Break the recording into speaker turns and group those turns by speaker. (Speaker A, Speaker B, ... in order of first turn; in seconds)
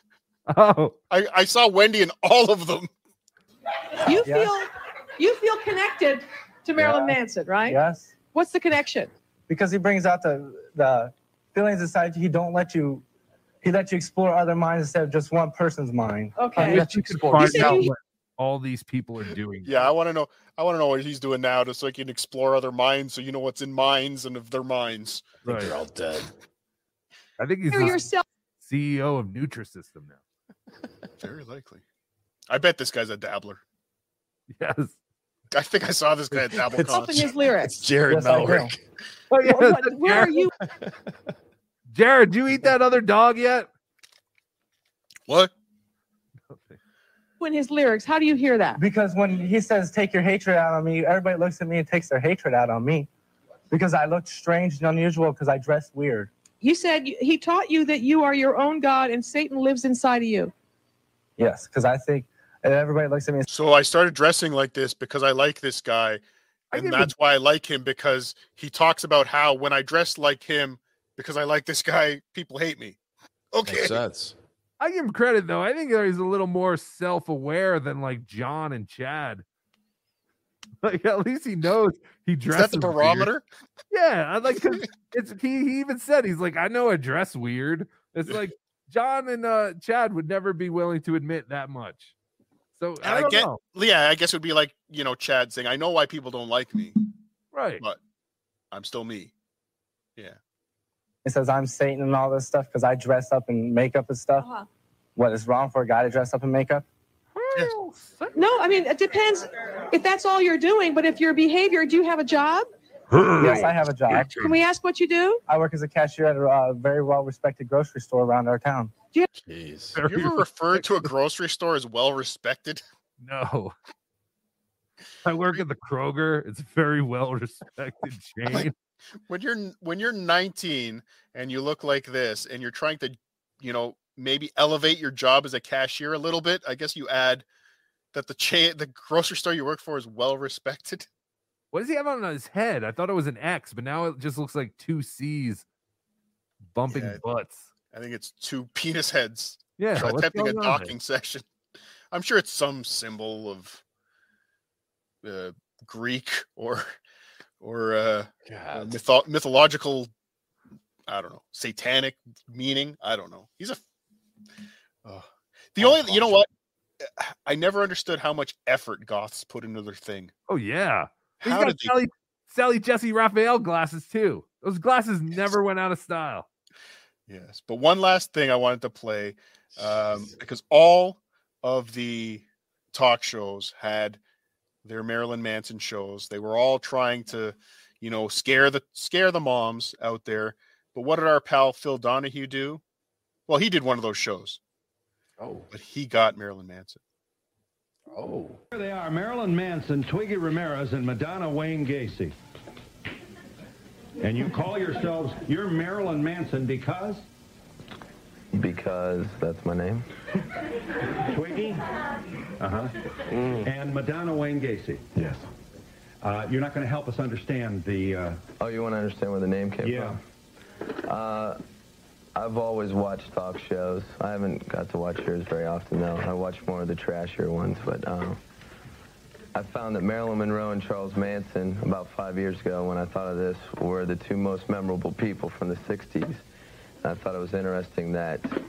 Speaker A: 0.5-0.9, 16.6-19.9, 25.5-25.7, 27.4-28.1, 28.6-30.2, 34.5-35.0, 39.3-40.5, 41.9-43.7, 46.5-46.8, 66.7-67.1, 74.8-79.4, 80.8-83.3, 83.9-92.1, 92.8-93.6, 97.5-97.8, 107.3-108.4, 113.1-114.3, 120.0-121.1, 123.2-123.8, 125.2-128.7, 141.7-145.6, 146.7-147.7, 149.8-150.9, 170.5-176.5
Speaker B: 1.1-2.9, 19.6-25.3, 31.2-31.8, 32.5-33.6, 35.5-37.3, 45.3-45.5, 63.5-73.0, 73.5-74.0, 82.5-83.5, 93.0-97.0, 98.7-99.3, 120.1-122.8, 128.5-128.7, 129.3-137.4, 138.1-141.1, 146.9-147.2, 147.9-151.5, 152.1-153.8, 155.2-156.9, 157.6-160.1, 161.1-163.8, 165.0-166.5, 167.0-170.3, 171.4-171.9, 177.3-184.2, 184.8-192.8, 193.5-194.6, 195.7-197.0
Speaker C: 4.0-7.8, 8.3-9.1, 16.4-17.9, 27.7-28.2, 36.9-37.8, 39.4-40.5, 47.4-48.8, 56.6-60.5, 104.4-104.7, 108.3-112.7, 114.4-115.4
Speaker D: 4.1-4.6, 6.8-8.2, 9.5-13.0, 13.6-17.8, 38.1-38.7, 48.8-53.1, 53.7-56.3, 61.4-63.5, 101.2-104.5, 105.2-106.8, 113.4-114.4, 115.5-119.0
Speaker E: 25.4-26.3, 36.7-38.8, 73.6-74.3, 119.4-120.0, 158.5-159.0, 165.8-166.4, 195.4-195.7, 198.1-198.6
Speaker F: 198.7-202.3, 204.2-207.2, 211.3-211.8, 212.6-212.9, 213.5-215.5, 216.2-218.4, 219.8-220.2
Speaker G: 208.5-210.1, 218.6-220.2, 221.1-221.6, 222.3-228.4, 229.5-236.4, 237.0-238.6